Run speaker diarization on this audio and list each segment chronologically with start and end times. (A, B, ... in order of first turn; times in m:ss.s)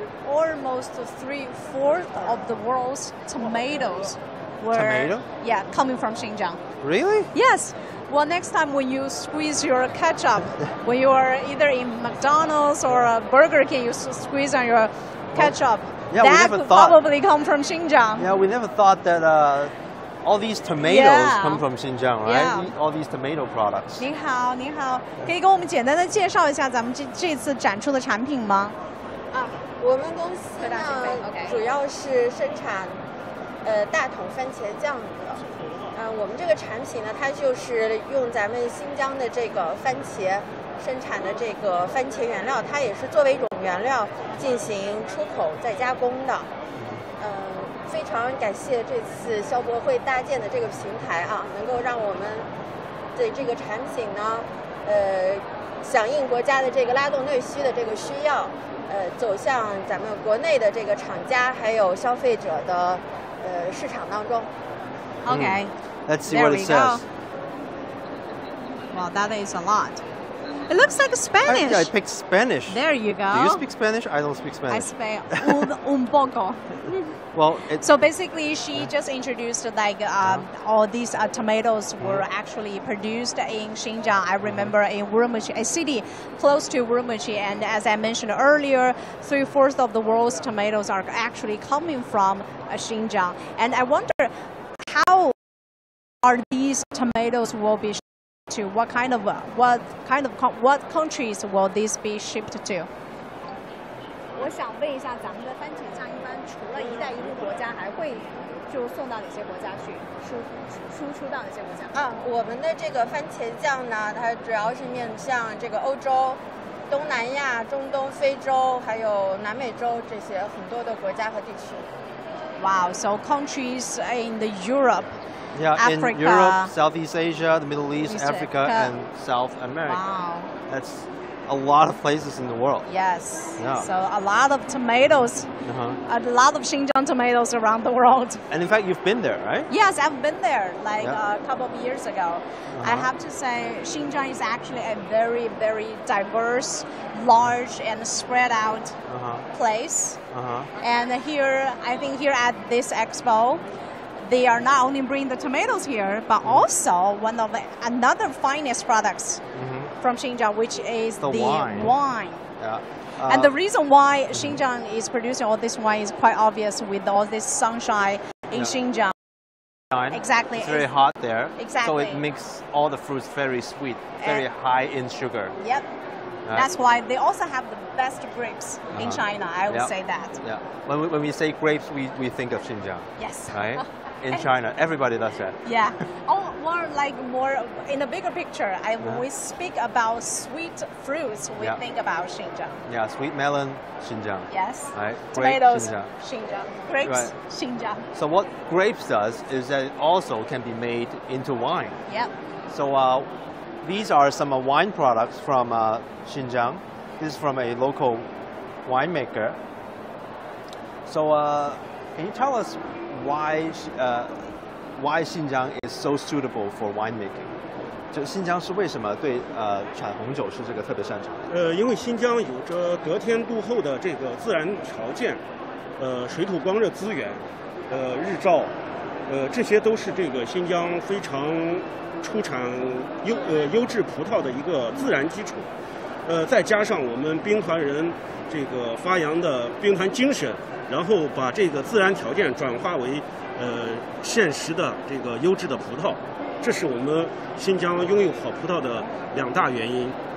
0:00.3-0:06.6 A
0:04.7-0:05.2 B
0:06.8-0:07.3 B
0:07.3-0:18.3 A
0:16.1-0:17.0 B
0:18.2-0:24.0 B
0:20.8-0:21.6 A
0:22.2-0:22.7 A
0:24.0-0:28.8 A
0:29.3-0:33.0 C
0:30.6-0:31.6 A
0:33.6-0:46.5 C
0:46.8-0:47.0 B
0:47.2-0:52.5 C
0:53.2-1:04.5 C
1:05.2-1:05.7 A
1:05.3-1:07.0 B
1:06.3-1:07.0 A
1:08.9-1:10.0 A
1:10.7-1:11.9 A
1:11.4-1:15.7 B
1:12.7-1:13.6 A
1:14.7-1:17.2 A
1:17.3-1:17.9 B
1:17.8-1:35.4 A
1:22.0-1:22.2 B
1:24.4-1:24.7 B
1:36.2-1:42.9 A
1:44.4-1:52.0 A
1:51.9-2:01.9 C
2:02.6-2:05.1 A
2:05.5-2:10.0 B
2:05.8-2:06.7 A
2:08.0-2:09.0 A
2:09.9-2:10.5 A
2:10.7-2:12.9 B
2:12.9-2:15.5 A
2:13.6-2:13.9 B
2:15.6-2:16.0 B
2:16.0-2:18.4 A
2:18.5-2:19.7 B
2:19.7-2:29.0 A
2:22.7-2:23.1 B
2:29.1-2:29.5 B
2:29.5-2:30.2 A
2:30.3-2:30.7 B
2:30.8-2:33.6 A
2:34.2-2:39.4 A
2:39.5-2:39.9 B
2:40.0-2:42.5 A
2:41.2-2:42.0 B
2:42.6-2:43.6 B
2:43.3-2:49.1 A
2:49.9-2:55.6 B
2:50.1-2:50.9 A
2:51.6-2:52.2 A
2:54.2-2:54.4 A
2:55.6-2:55.9 A
2:56.5-3:00.4 A
2:58.9-3:05.6 B
3:03.2-3:04.5 A
3:05.6-3:12.8 A
3:12.9-3:16.1 B
3:14.5-3:18.1 A
3:17.0-3:17.3 B
3:18.1-3:22.0 B
3:22.7-3:23.3 B
3:23.8-3:28.3 B
3:28.8-3:29.6 B
3:31.1-3:34.4 B
3:35.0-3:37.5 B
3:38.1-3:41.4 B
3:41.5-3:45.4 D
3:46.0-3:48.7 D
3:49.3-3:55.7 D
3:56.3-4:10.2 D